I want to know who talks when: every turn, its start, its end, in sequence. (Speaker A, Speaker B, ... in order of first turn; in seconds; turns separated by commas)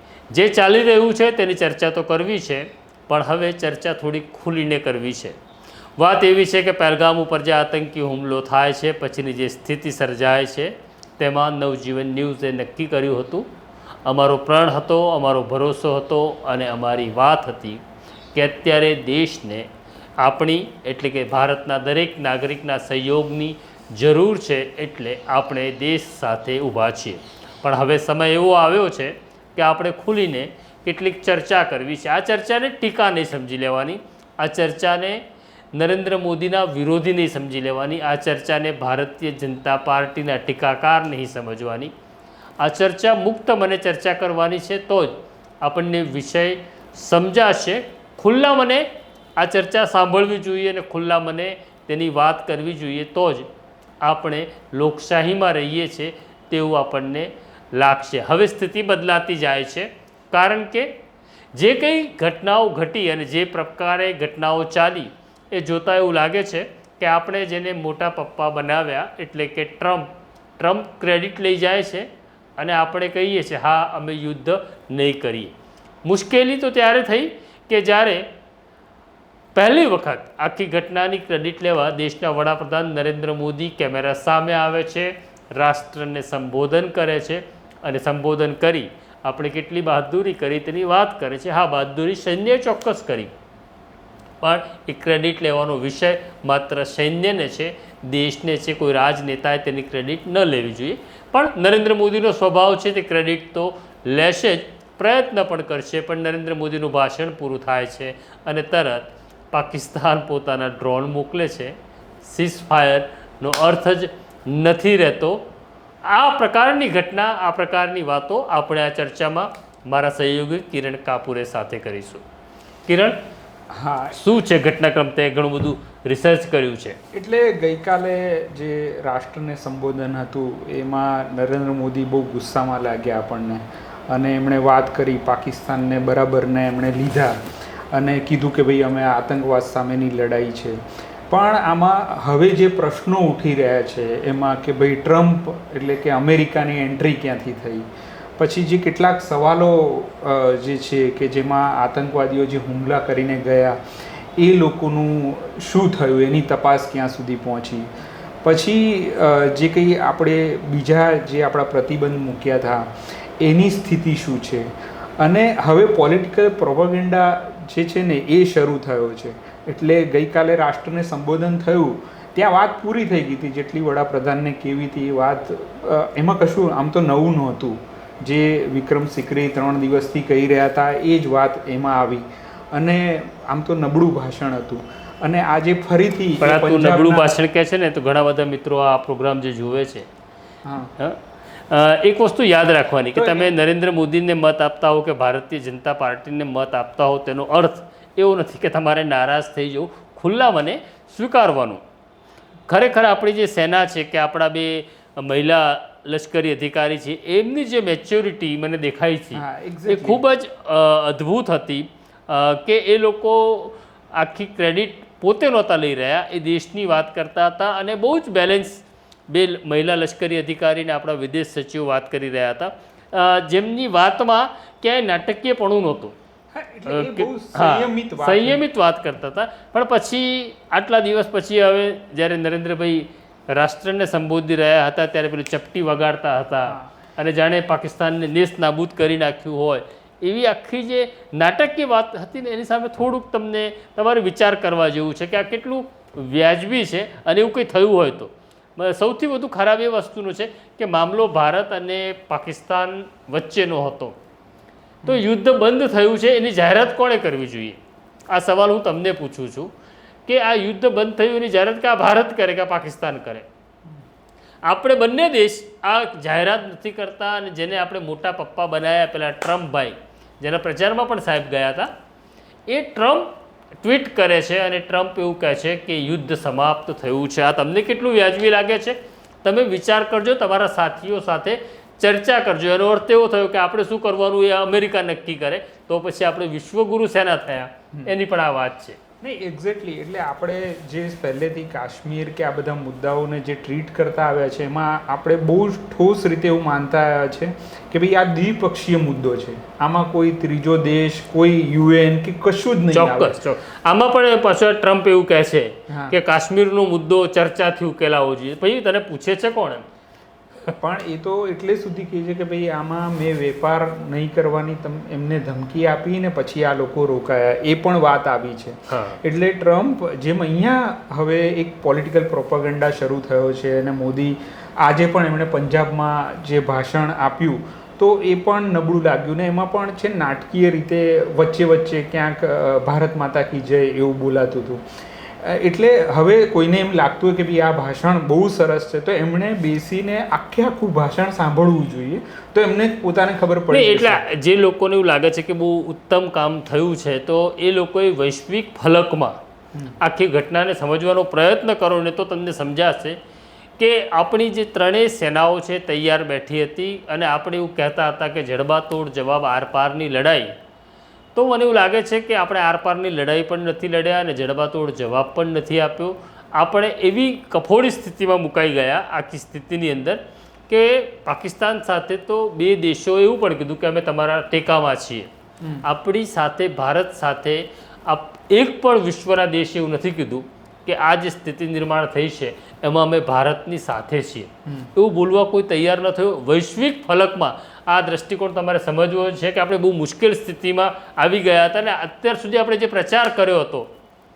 Speaker A: 0.3-5.4, Speaker A: 6.0-13.5, Speaker A: 14.0-17.8, Speaker A: 18.3-19.7, Speaker A: 20.2-35.2, Speaker A: 35.7-41.9, Speaker A: 42.6-53.5, Speaker A: 54.0-60.9, Speaker A: 61.5-75.5, Speaker A: 76.0-78.2, Speaker A: 79.5-93.3, Speaker A: 94.4-115.4, Speaker A: 116.0-122.2, Speaker A: 122.8-123.2, Speaker B: 123.7-124.2, Speaker A: 124.1-127.0, Speaker B: 127.1-137.4, Speaker B: 137.9-153.8, Speaker B: 154.4-157.9, Speaker B: 158.4-187.3, Speaker A: 186.4-190.1, Speaker B: 190.6-190.9, Speaker A: 191.0-201.8, Speaker B: 193.1-193.6, Speaker A: 202.7-226.2, Speaker B: 209.3-210.2, Speaker B: 226.5-228.6, Speaker A: 226.9-254.2, Speaker B: 236.7-236.9, Speaker A: 255.1-257.8, Speaker A: 258.3-259.7, Speaker A: 260.3-263.5, Speaker A: 264.6-271.9, Speaker A: 272.7-289.0, Speaker B: 289.2-303.4, Speaker A: 302.9-309.8, Speaker B: 305.9-306.2, Speaker B: 310.8-334.8, Speaker A: 318.9-319.2, Speaker B: 335.4-344.2, Speaker A: 343.7-349.4, Speaker B: 349.7-350.0, Speaker A: 350.0-353.2, Speaker A: 353.8-360.6, Speaker A: 361.3-375.3, Speaker A: 375.8-393.9, Speaker B: 384.6-384.9